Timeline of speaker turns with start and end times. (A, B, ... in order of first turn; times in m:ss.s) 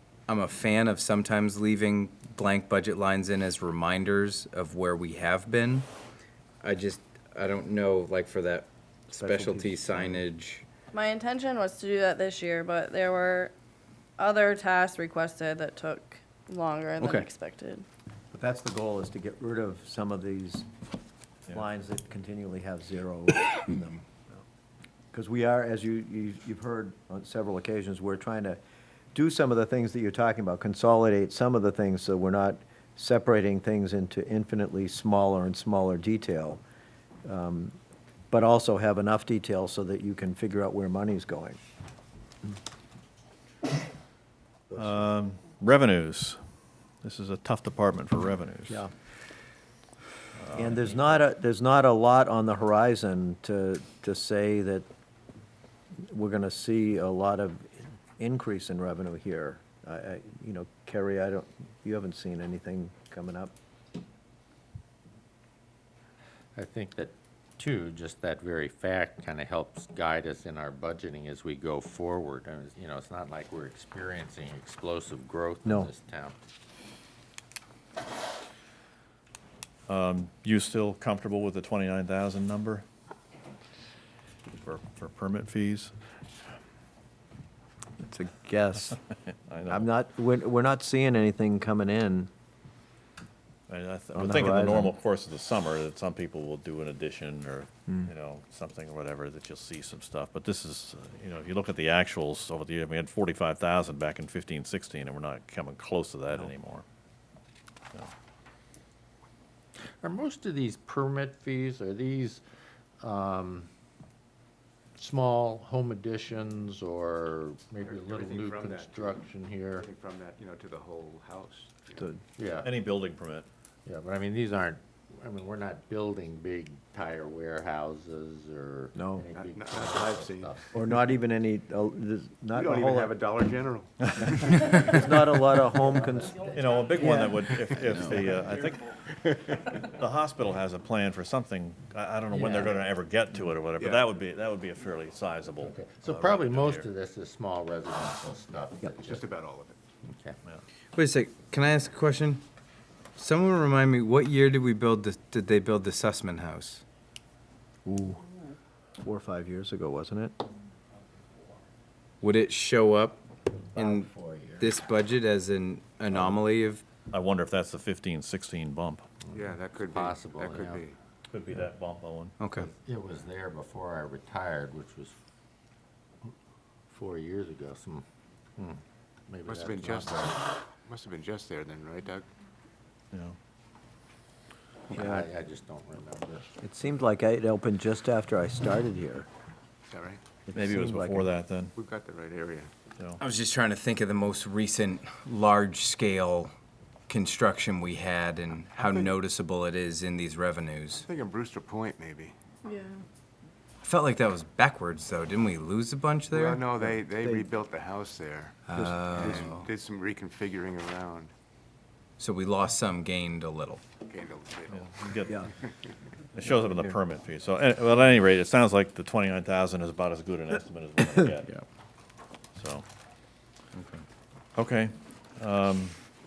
0:00.3-0:05.9 A
0:06.6-0:10.6 A
0:09.2-0:10.3 B
0:10.9-0:13.5 C
0:14.2-0:17.8 C
0:17.0-0:17.3 A
0:18.3-0:20.6 B
0:21.5-0:24.0 B
0:25.1-0:28.6 B
0:29.1-0:36.6 B
0:37.2-0:37.7 B
0:38.3-0:41.6 B
0:44.7-0:46.4 D
0:47.0-0:48.8 D
0:50.4-0:51.0 D
0:50.5-0:54.9 B
0:56.0-1:03.5 B
1:06.6-1:16.4 E
1:15.6-1:15.9 B
1:19.9-1:22.8 D
1:24.5-1:25.9 D
1:28.0-1:29.0 B
1:29.5-1:29.9 D
1:29.7-1:32.3 B
1:33.7-1:46.8 D
1:34.1-1:34.9 B
1:50.0-1:52.4 E
1:53.0-1:53.7 E
1:55.0-1:59.9 E
1:57.8-2:02.1 F
2:02.4-2:02.7 E
2:02.6-2:03.5 D
2:03.8-2:10.7 E
2:08.9-2:09.2 B
2:09.4-2:10.5 F
2:10.7-2:13.2 B
2:12.5-2:15.0 F
2:14.4-2:17.5 B
2:16.2-2:16.5 E
2:16.5-2:18.8 D
2:17.8-2:19.8 F
2:19.9-2:26.8 D
2:22.3-2:22.8 E
2:23.8-2:24.0 F
2:25.6-2:29.3 E
2:29.0-2:29.8 F
2:30.0-2:30.4 E
2:30.9-2:32.4 A
2:33.2-2:36.8 A
2:37.8-2:38.2 B
2:39.0-2:40.4 B
2:42.2-2:43.2 A
2:43.7-2:44.7 E
2:43.7-2:46.8 A
2:46.1-2:46.4 D
2:47.1-2:49.0 D
2:49.2-2:50.8 E
2:49.3-2:51.0 F
2:51.3-2:52.4 D
2:52.4-2:52.7 A
2:52.6-2:55.2 E
2:56.9-2:58.0 E
2:58.6-3:00.4 E
2:59.4-3:02.2 F
3:04.9-3:06.5 E
3:05.0-3:05.3 B
3:06.6-3:09.3 B
3:09.9-3:10.2 F
3:10.5-3:11.3 B
3:10.5-3:11.7 D
3:11.8-3:12.7 F
3:13.2-3:16.5 A
3:17.1-3:21.0 A
3:18.8-3:19.1 F
3:21.0-3:22.3 F
3:22.6-3:23.0 C
3:23.8-3:26.6 A
3:26.3-3:31.3 F
3:26.8-3:27.4 B
3:28.7-3:29.6 A
3:28.7-3:29.4 B
3:32.2-3:33.8 A
3:34.1-3:35.2 F
3:34.7-3:35.4 D
3:36.3-3:41.5 D
3:36.5-3:37.0 B
3:42.6-3:42.8 D
3:43.7-3:44.0 A
3:44.6-3:46.0 D